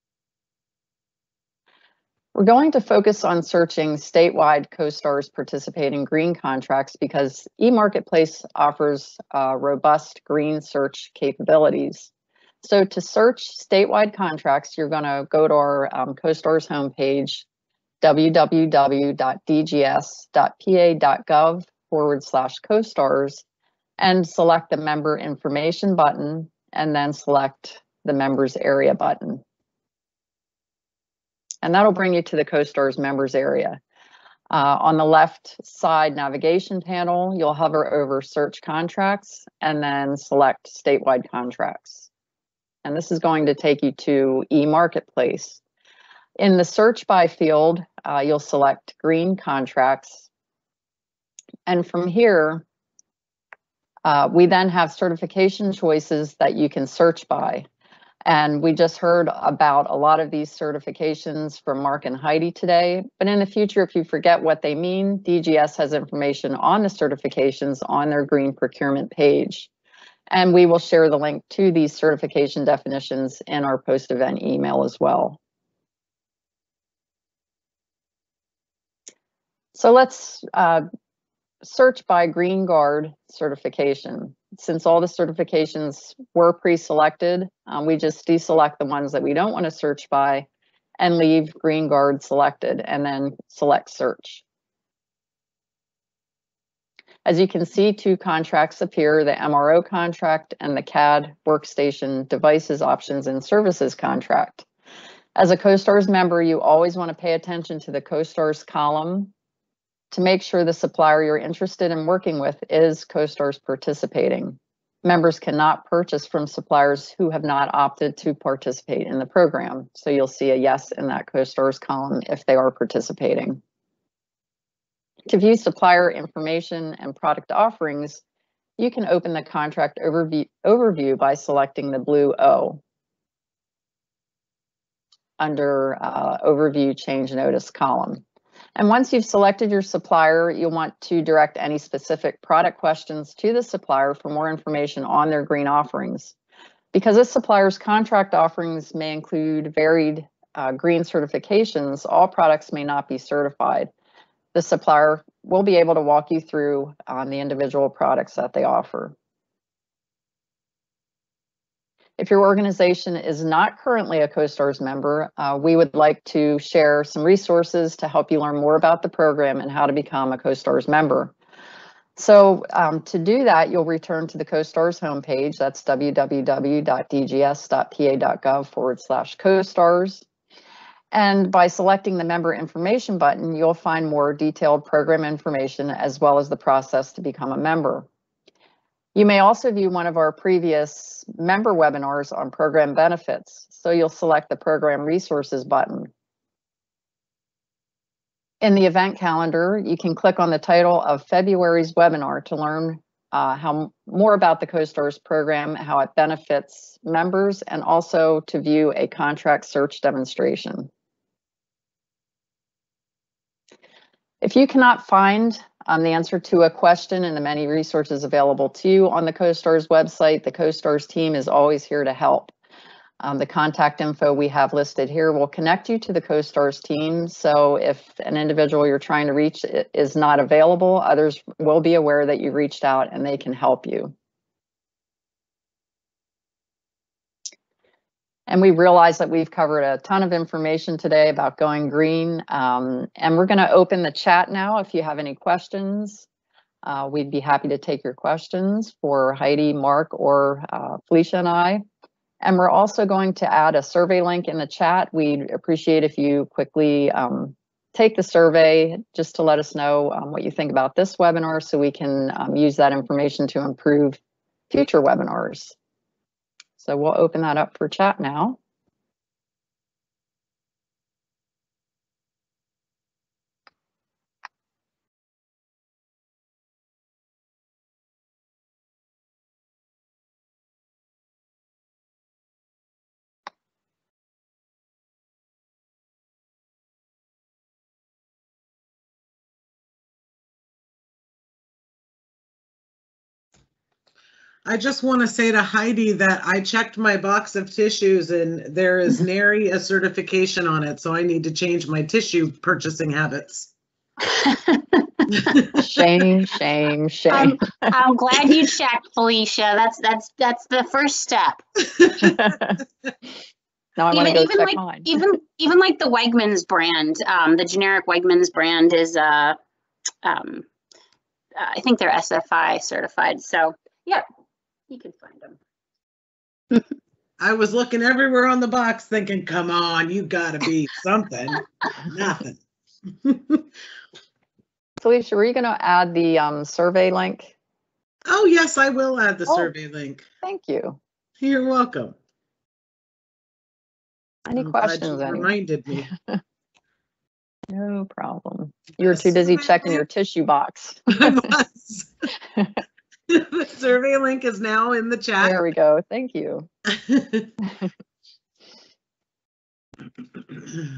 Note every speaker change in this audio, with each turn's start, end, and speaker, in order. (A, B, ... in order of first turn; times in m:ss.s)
0:02.3-0:12.1 A
0:12.6-0:17.4 A
0:18.0-0:23.4 A
0:24.0-0:29.4 A
0:31.6-0:33.8 A
0:34.5-0:42.1 A
0:42.8-0:45.6 A
0:46.4-0:50.2 A
0:51.6-0:52.6 A
0:54.0-0:57.6 A
0:58.2-1:09.7 A
1:10.3-1:15.4 A
1:19.7-1:20.8 A
1:21.6-1:30.4 A
1:31.0-1:34.4 A
1:37.2-1:44.6 A
1:45.3-1:49.3 A
1:50.1-2:03.6 A
2:05.3-2:08.2 A
2:08.8-2:12.8 A
2:15.4-2:18.2 A
2:18.8-2:26.3 A
2:26.9-2:33.9 A
2:34.5-2:39.1 A
2:42.2-2:51.3 A
2:52.2-3:00.2 A
3:01.1-3:08.1 A
3:09.1-3:16.1 A
3:18.6-3:30.9 A
3:34.4-3:42.5 A
3:43.2-3:54.1 A
3:58.5-4:06.2 A
4:06.8-4:11.8 A
4:12.4-4:24.2 A
4:24.7-4:25.7 A
4:26.8-4:28.6 A
4:54.6-5:03.7 B
5:04.3-5:05.0 C
5:05.3-5:05.8 B
5:05.7-5:07.9 A
5:07.3-5:11.6 C
5:12.0-5:12.4 B
5:12.2-5:12.8 A
5:14.0-5:15.1 A
5:14.1-5:19.5 C
5:20.2-5:20.6 C
5:21.6-5:24.2 C
5:24.9-5:25.6 C
5:27.4-5:32.6 B
5:33.2-5:33.6 B
5:35.0-5:37.5 A
5:38.3-5:40.2 B
5:40.4-5:41.0 A
5:41.4-5:42.1 B
5:44.5-5:45.5 A
5:44.5-5:46.1 B
5:46.1-5:46.4 A
5:47.7-5:51.4 A
5:49.0-5:50.0 B
5:51.1-5:52.1 B
5:53.3-5:55.6 B
5:55.4-5:56.7 A
5:56.9-5:57.5 B